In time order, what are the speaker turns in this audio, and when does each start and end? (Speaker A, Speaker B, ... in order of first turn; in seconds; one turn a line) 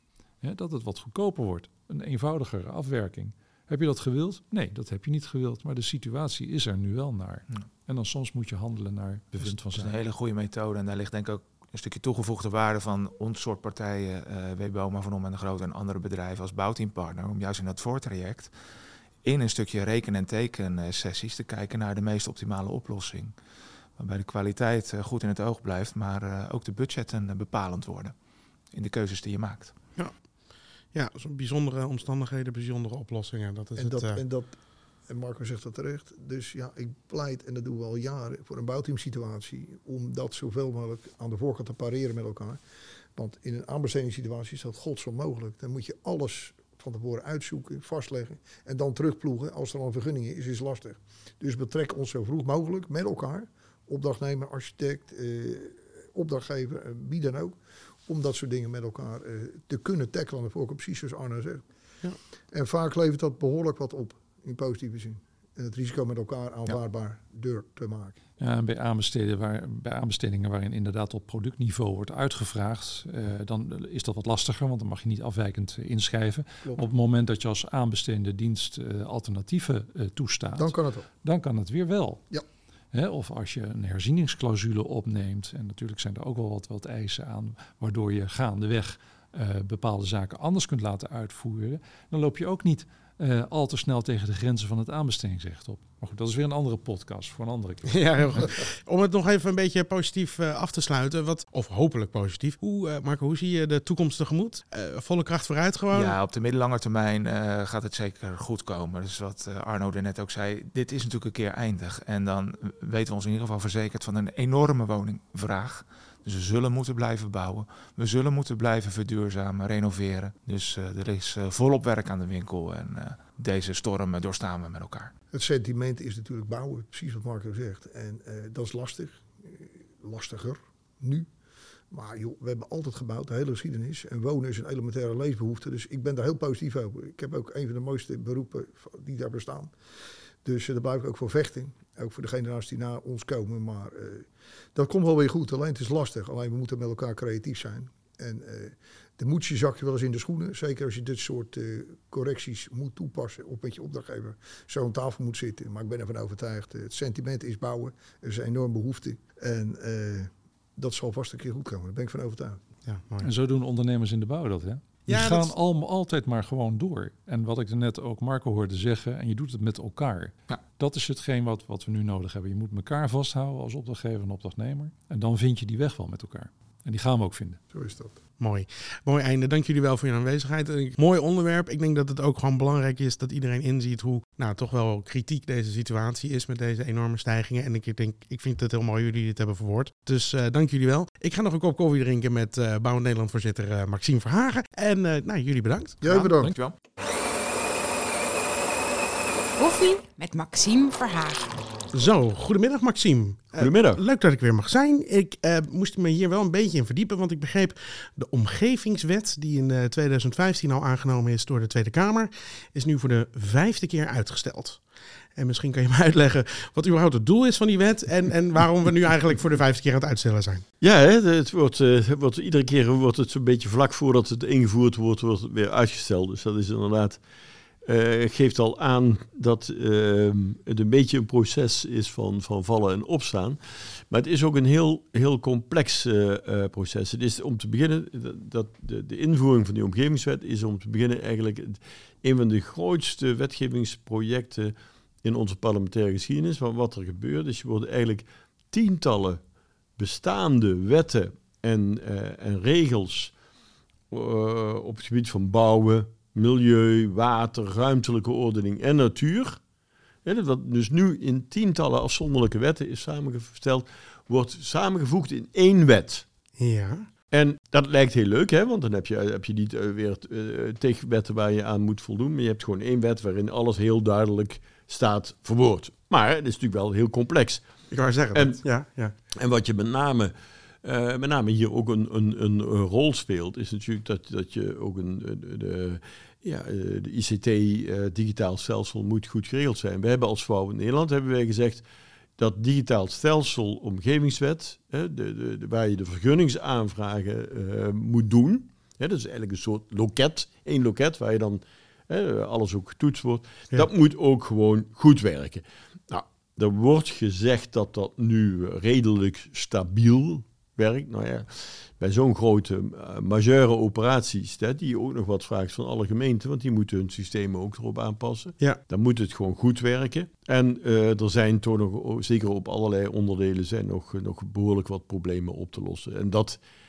Speaker A: 0.4-9.9
Speaker B: 9.4-18.5
Speaker B: 19.2-23.3
Speaker B: 24.0-28.1
Speaker B: 28.7-29.7
Speaker C: 30.9-34.2
Speaker D: 33.8-34.6
Speaker D: 35.1-42.6
Speaker D: 43.1-61.6
Speaker D: 62.5-68.2
Speaker A: 68.4-82.2
Speaker D: 80.5-81.1
Speaker A: 82.9-98.5
Speaker C: 97.9-106.2
Speaker B: 105.9-125.1
Speaker D: 125.3-131.3
Speaker D: 131.9-139.7
Speaker D: 140.4-162.6
Speaker C: 162.8-163.3
Speaker A: 163.2-177.6
Speaker C: 165.1-165.5
Speaker D: 177.7-178.2
Speaker C: 178.4-196.0
Speaker D: 196.0-196.6
Speaker B: 196.0-196.7
Speaker E: 199.6-201.6
Speaker C: 201.9-220.6
Speaker F: 203.6-204.0
Speaker F: 220.8-227.2
Speaker F: 227.8-249.4
Speaker F: 250.0-253.3
Speaker F: 254.1-259.6
Speaker F: 260.2-266.2
Speaker C: 266.6-267.1
Speaker F: 267.3-277.7
Speaker C: 277.9-279.1
Speaker F: 278.3-278.6
Speaker F: 279.3-291.8
Speaker F: 292.4-326.6